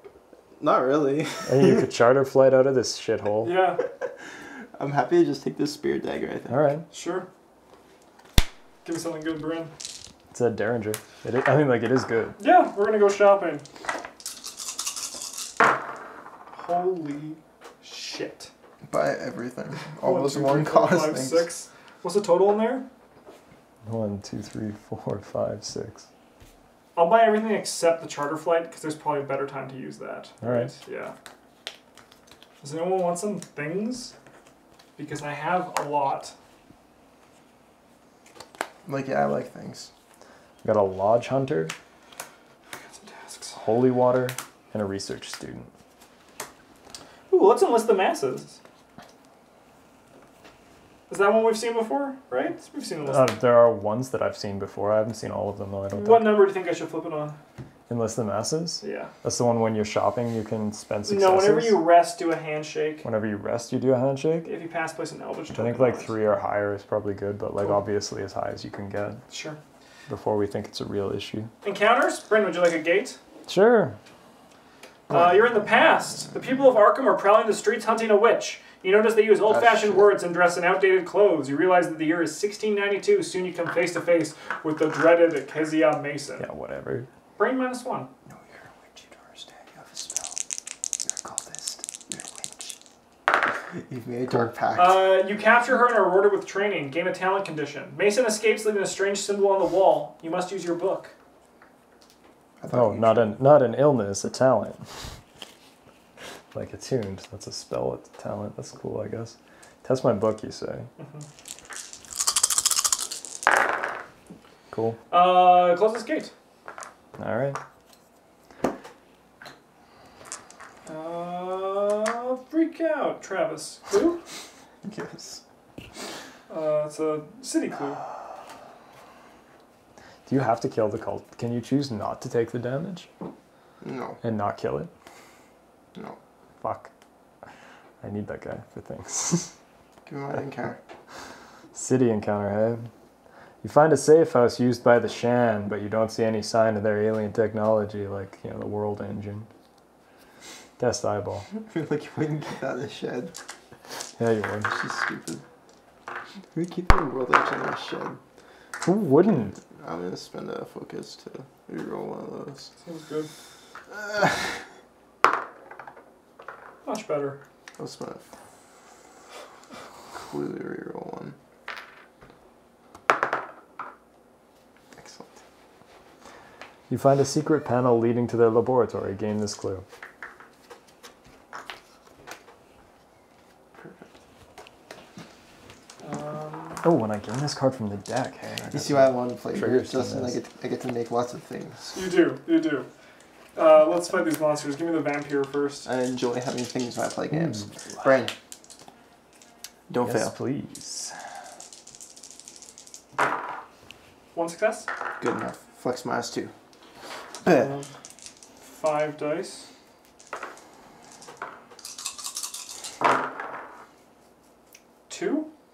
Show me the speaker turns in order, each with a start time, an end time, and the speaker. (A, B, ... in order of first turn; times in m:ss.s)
0:00.6-0:01.8 A
0:01.5-0:03.6 B
0:03.4-0:03.8 C
0:04.8-0:06.6 A
0:06.5-0:06.8 B
0:06.9-0:07.3 C
0:08.8-0:09.7 C
0:10.3-0:12.4 B
0:12.4-0:13.6 C
0:16.6-0:18.5 C
0:18.9-0:21.5 A
0:20.0-0:22.9 C
0:23.8-0:26.1 B
0:27.0-0:31.1 C
0:30.4-0:30.7 B
0:32.6-0:34.1 C
0:35.0-0:36.3 C
0:38.8-0:39.9 A
0:40.6-0:41.7 B
0:42.9-0:43.6 C
0:43.6-0:45.7 B
0:47.3-0:48.6 C
0:51.1-0:53.3 C
0:53.0-0:56.4 B
0:55.9-0:57.4 C
0:57.9-1:01.8 B
0:58.8-0:59.1 C
1:01.1-1:03.0 C
1:03.0-1:04.5 B
1:04.4-1:06.2 C
1:05.6-1:09.2 B
1:09.3-1:09.6 C
1:10.1-1:11.5 B
1:11.6-1:13.2 C
1:13.5-1:14.0 B
1:15.1-1:26.5 C
1:15.1-1:15.6 A
1:19.5-1:20.1 A
1:26.4-1:27.1 B
1:27.4-1:28.1 C
1:28.3-1:30.4 A
1:31.0-1:32.8 A
1:33.7-1:35.1 A
1:34.8-1:41.1 C
1:42.6-1:43.4 A
1:42.7-1:45.1 B
1:46.5-1:50.9 B
1:51.0-1:51.3 C
1:54.7-1:55.0 B
1:55.1-1:56.3 C
1:57.2-1:57.6 B
2:00.9-2:04.2 C
2:04.8-2:05.4 A
2:06.5-2:08.0 C
2:10.3-2:13.1 B
2:13.8-2:14.2 A
2:14.2-2:14.9 B
2:16.6-2:16.9 B
2:18.0-2:19.5 B
2:20.1-2:20.8 A
2:21.7-2:22.9 B
2:23.6-2:29.5 B
2:30.8-2:31.5 B
2:31.7-2:33.3 A
2:34.2-2:34.7 B
2:34.7-2:35.4 A
2:36.5-2:38.2 A
2:38.8-2:39.6 B
2:39.7-2:42.7 A
2:42.8-2:43.3 C
2:43.9-2:44.6 A
2:46.8-2:47.4 C
2:47.8-2:48.3 A
2:50.1-2:51.4 A
2:55.0-2:55.4 A
2:56.9-2:59.8 B
3:03.8-3:04.1 A
3:06.0-3:06.8 C
3:06.8-3:10.4 B
3:08.7-3:11.9 A
3:11.9-3:12.9 C
3:13.6-3:15.9 C
3:15.9-3:18.3 A
3:17.3-3:17.7 B
3:19.9-3:20.3 A
3:20.0-3:21.2 B
3:24.3-3:24.9 C
3:25.2-3:26.5 A
3:27.4-3:27.7 A
3:27.5-3:27.9 C
3:28.6-3:29.7 C
3:35.1-3:35.5 C